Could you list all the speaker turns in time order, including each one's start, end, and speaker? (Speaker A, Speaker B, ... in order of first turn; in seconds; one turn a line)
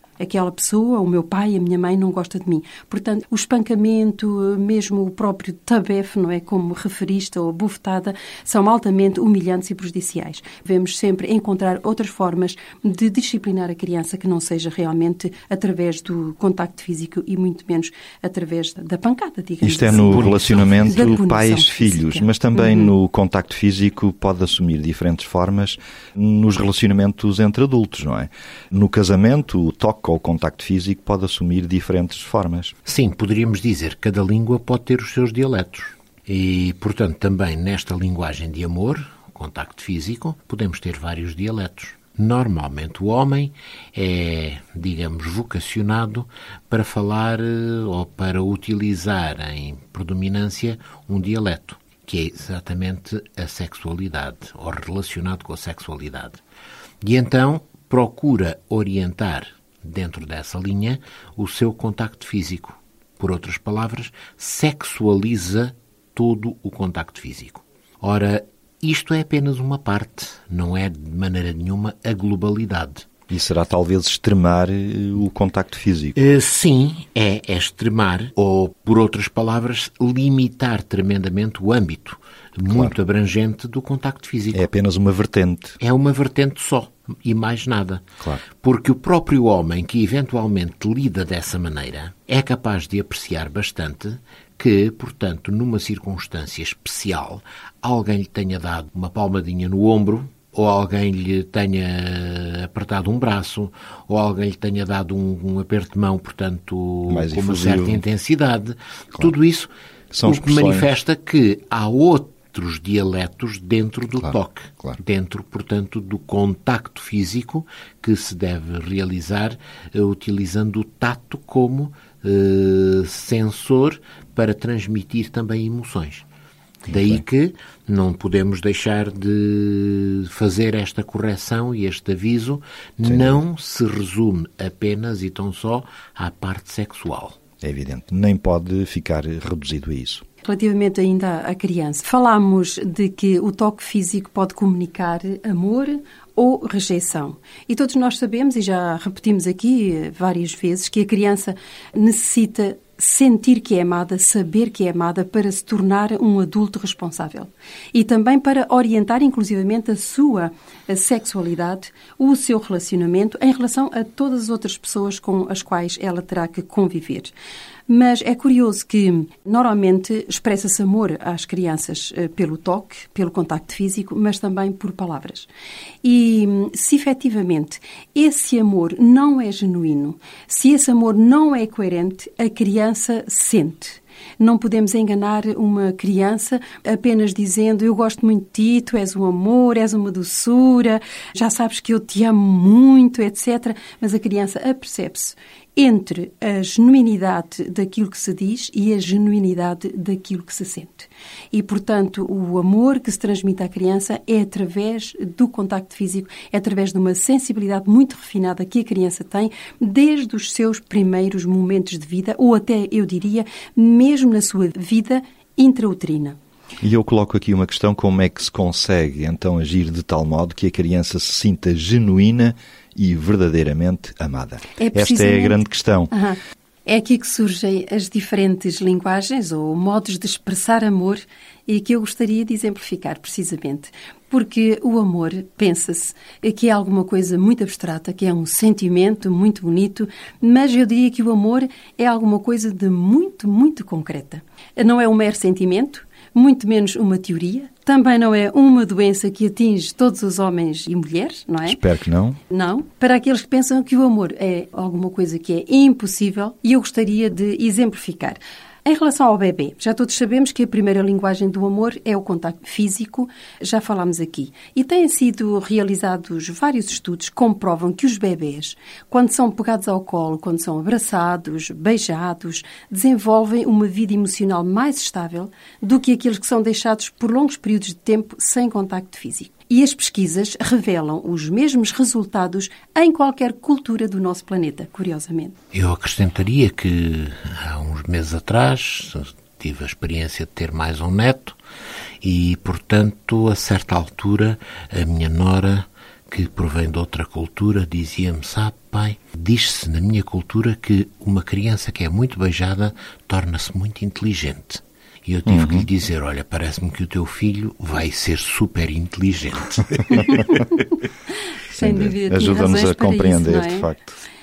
Speaker A: 0.2-22.9
Speaker B: 19.6-32.8
Speaker C: 20.1-21.1
Speaker C: 32.9-56.4
Speaker C: 57.0-73.0
Speaker B: 73.3-76.2
Speaker C: 76.2-84.7
Speaker B: 84.5-85.8
Speaker C: 85.8-88.1
Speaker C: 88.6-109.7
Speaker B: 107.1-108.0
Speaker B: 110.1-110.9
Speaker C: 110.2-126.2
Speaker B: 114.2-115.0
Speaker B: 126.9-127.2
Speaker C: 126.9-137.4
Speaker B: 133.0-133.4
Speaker B: 137.6-140.2
Speaker A: 140.4-167.3
Speaker A: 167.9-175.5
Speaker A: 176.0-216.4
Speaker B: 216.8-226.1
Speaker A: 224.8-225.6
Speaker A: 226.1-251.8
Speaker B: 251.6-252.4
Speaker A: 252.5-285.5
Speaker C: 285.7-291.6
Speaker C: 292.2-310.4
Speaker B: 305.4-305.9
Speaker A: 310.1-310.8
Speaker B: 311.7-314.2
Speaker A: 311.8-313.9